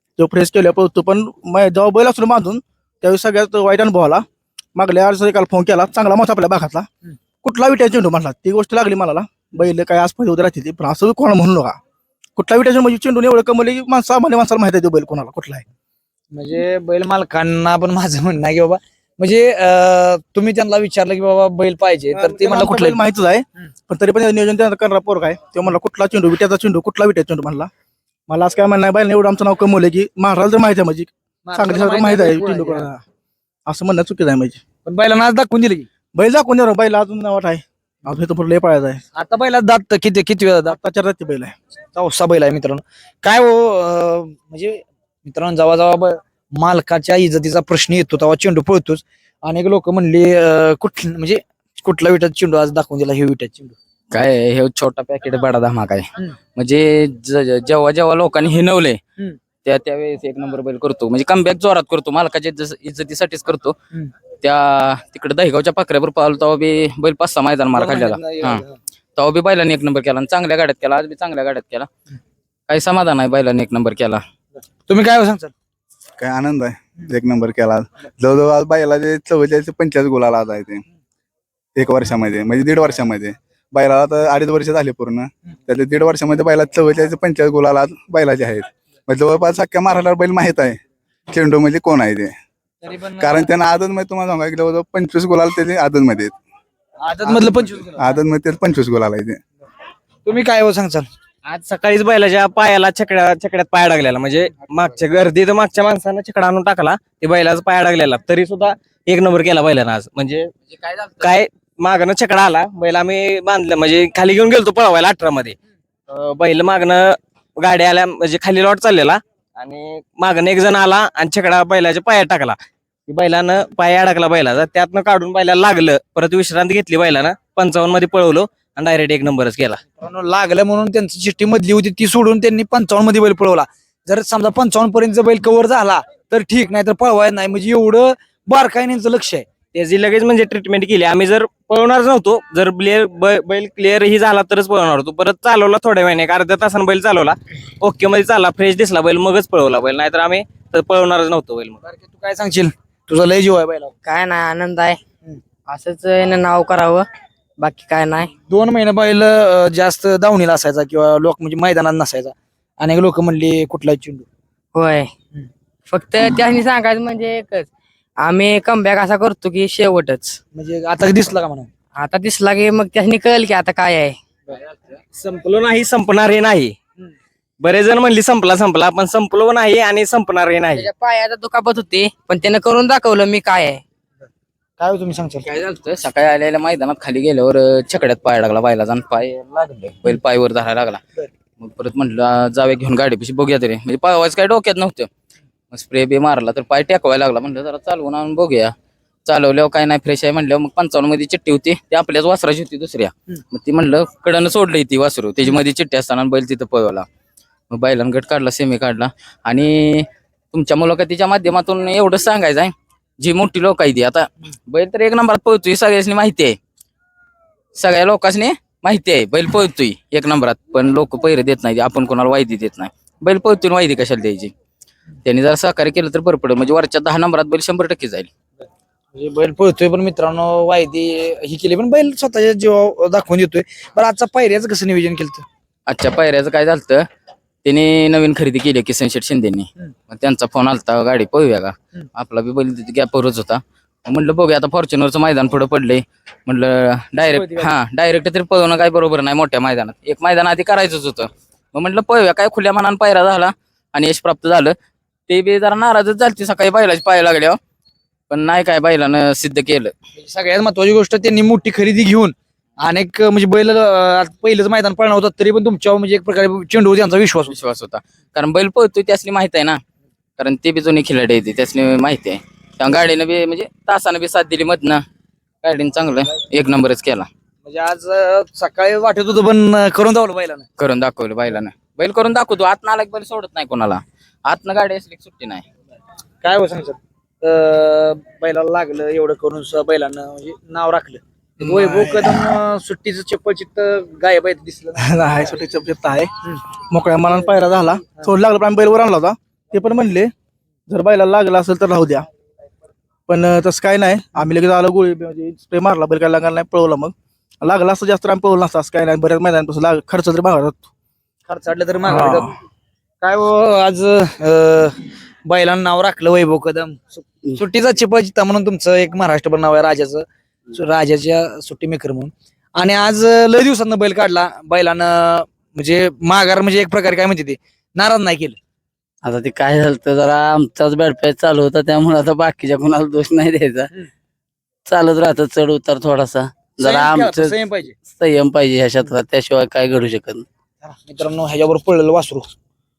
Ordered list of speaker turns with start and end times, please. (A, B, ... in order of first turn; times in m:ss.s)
0:00.2-0:06.9 A
0:07.4-0:11.8 A
0:12.4-0:15.6 A
0:16.3-0:23.0 B
0:22.1-0:27.7 A
0:28.3-0:33.0 A
0:31.5-0:32.9 B
0:33.7-0:34.6 A
0:34.8-0:35.9 B
0:36.2-0:39.0 A
0:39.2-0:40.8 B
0:40.7-0:41.6 A
0:41.9-0:53.8 B
0:54.1-0:59.0 C
0:59.6-1:03.8 C
1:04.4-1:08.6 C
1:07.8-1:08.7 B
1:09.2-1:11.9 C
1:12.7-1:14.2 C
1:14.9-1:15.5 B
1:16.2-1:20.8 D
1:21.8-1:30.8 D
1:31.3-1:32.3 D
1:32.8-1:33.5 B
1:33.2-1:36.3 D
1:37.0-1:38.2 B
1:38.0-1:39.4 D
1:40.2-1:41.1 B
1:41.4-1:50.5 E
1:50.8-1:51.3 C
1:51.2-1:55.6 E
1:56.1-2:09.8 E
2:10.0-2:19.5 B
2:19.7-2:31.8 E
2:31.8-2:33.9 B
2:34.0-2:35.0 F
2:35.7-2:37.1 F
2:37.6-2:38.3 F
2:38.5-2:44.3 B
2:44.8-2:45.1 F
2:45.9-2:50.4 F
2:50.5-2:51.7 B
2:52.0-2:54.2 F
2:55.1-2:56.8 E
2:57.6-3:00.9 E
3:00.8-3:03.8 F
3:04.8-3:05.5 B
3:05.5-3:11.0 C
3:11.6-3:15.1 C
3:15.7-3:18.7 C
3:19.3-3:27.1 C
3:27.7-3:36.6 C
3:37.8-3:44.5 C
3:45.2-3:48.3 C
3:49.1-3:55.5 B
3:55.9-3:57.0 C
3:57.6-4:14.7 C
4:07.2-4:07.7 B
4:15.3-4:17.6 C
4:18.3-4:19.9 C
4:20.2-4:27.5 B
4:27.5-4:29.8 C
4:30.4-4:35.0 C
4:35.6-4:37.3 C
4:37.6-4:40.7 B
4:40.8-4:45.6 C
4:46.4-4:55.2 B
4:51.6-4:52.5 A
4:55.0-4:56.3 A
4:56.9-5:00.3 A
5:00.9-5:02.2 A
5:03.3-5:10.9 A
5:11.5-5:12.5 B
5:12.1-5:12.5 A
5:13.2-5:28.6 B
5:29.2-5:33.9 G
5:34.9-5:40.5 G
5:36.8-5:38.0 B
5:40.8-5:42.5 B